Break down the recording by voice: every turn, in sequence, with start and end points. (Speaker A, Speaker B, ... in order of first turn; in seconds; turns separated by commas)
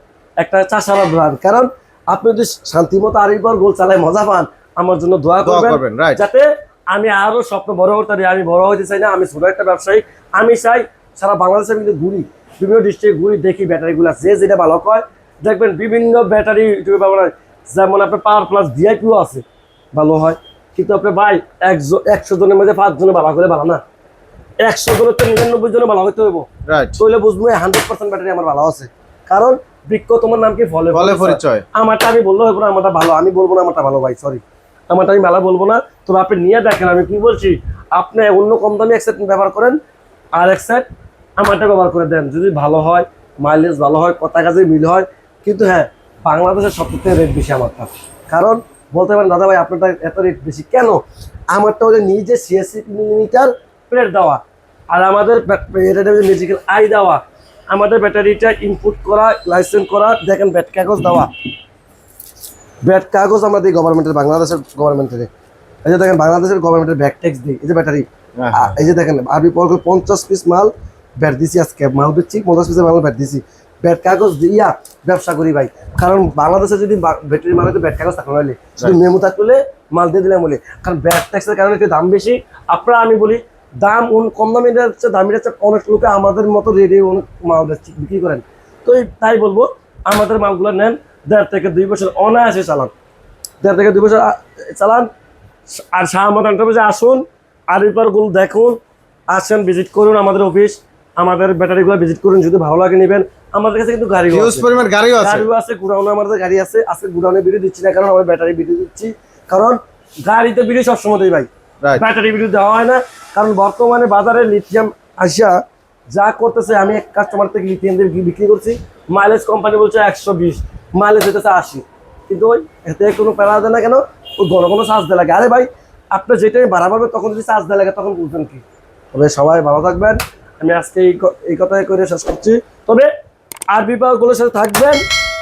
Speaker A: 0.4-23.8, Speaker B: 5.4-6.2, Speaker A: 24.6-26.5, Speaker B: 26.7-27.0, Speaker A: 27.0-39.8, Speaker B: 30.9-31.6, Speaker A: 40.4-40.9, Speaker A: 41.4-61.3, Speaker A: 62.9-65.3, Speaker A: 65.8-92.9, Speaker B: 68.4-68.7, Speaker A: 93.6-95.1, Speaker A: 95.7-98.8, Speaker A: 99.3-104.7, Speaker B: 104.3-105.5, Speaker A: 105.2-115.6, Speaker A: 116.1-133.1, Speaker A: 133.7-135.0